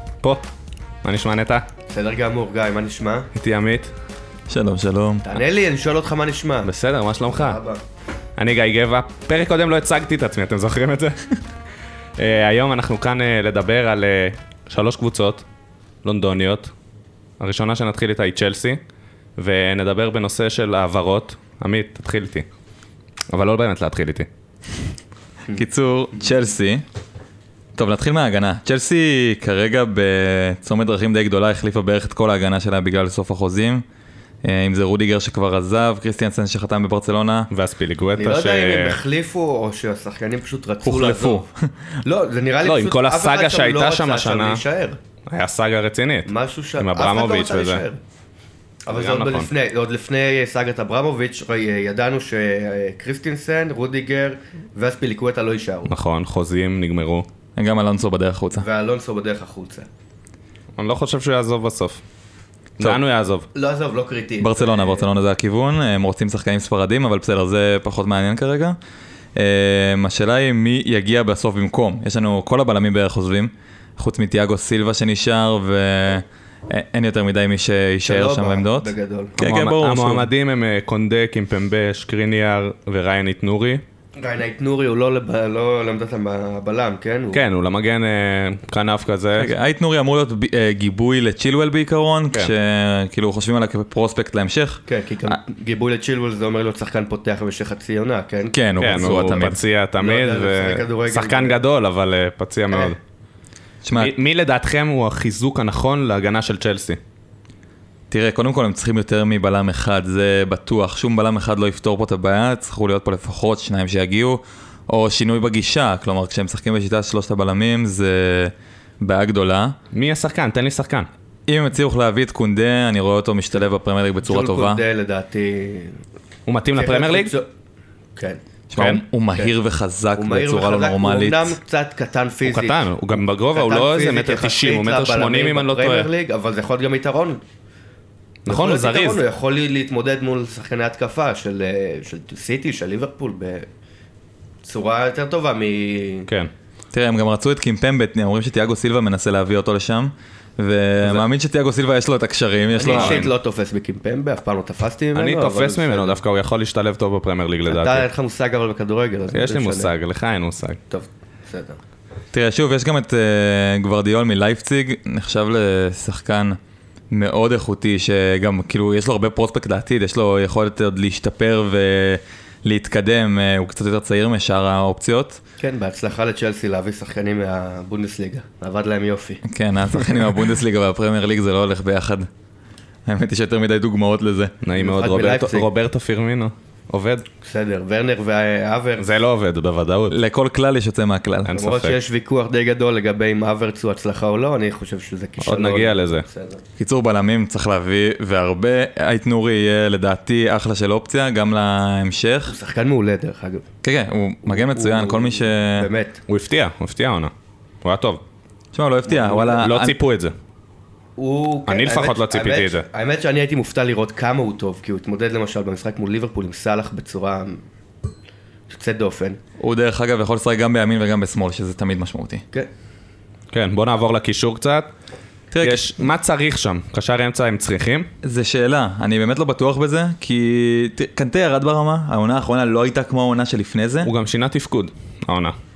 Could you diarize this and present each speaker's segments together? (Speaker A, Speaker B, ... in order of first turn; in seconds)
Speaker A: 1.0-1.6, 3.3-3.9, 6.6-7.6, 8.4-11.3, 12.2-15.4, 16.0-16.7, 17.4-18.8, 19.4-22.4, 23.3-24.3, 37.5-39.0, 42.6-44.6, 45.3-47.8, 48.9-49.5, 55.9-57.2, 60.8-62.0, 62.8-63.5, 79.4-83.8, 87.3-89.5, 98.8-103.0, 104.0-107.0, 119.9-121.1, 126.5-127.3, 128.7-129.0, 132.4-136.1, 138.4-139.2, 152.8-153.3, 155.1-158.1, 159.3-160.8, 184.6-187.2, 189.0-190.2, 191.4-192.0, 195.4-196.2, 206.3-207.3, 207.8-208.2, 209.6-210.3, 211.7-212.8, 223.5-224.9, 225.6-228.1, 234.0-235.5
Speaker B: 1.9-3.3, 5.2-6.7, 7.2-7.8, 38.1-41.5, 42.0-45.0, 46.2-48.0, 48.9-55.9, 58.6-59.9, 63.5-65.0, 78.0-79.4, 84.2-87.4, 94.9-101.6, 124.2-126.0, 126.7-127.5, 128.2-128.4, 130.2-132.9, 133.5-137.4, 138.5-143.7, 144.6-146.3, 152.7-156.2, 157.7-159.9, 160.9-161.8, 175.6-179.4, 184.8-185.7, 187.4-189.1, 191.5-196.6, 202.4-203.6, 204.4-206.2, 209.1-209.6, 211.2-217.6, 218.7-219.4
Speaker C: 4.5-5.3, 25.5-26.8, 27.8-33.8, 34.4-37.5, 40.8-41.7, 57.5-58.6, 64.4-68.8, 69.3-80.3, 89.3-95.4, 98.5-99.6, 103.8-104.1, 108.1-119.7, 121.5-124.8, 128.7-131.6, 146.9-153.3, 162.3-166.6, 167.1-175.4, 179.4-182.3, 183.1-184.6, 190.1-191.5, 196.8-202.5, 203.8-205.9, 208.7-209.9, 219.6-222.4, 225.5-225.9, 228.2-234.1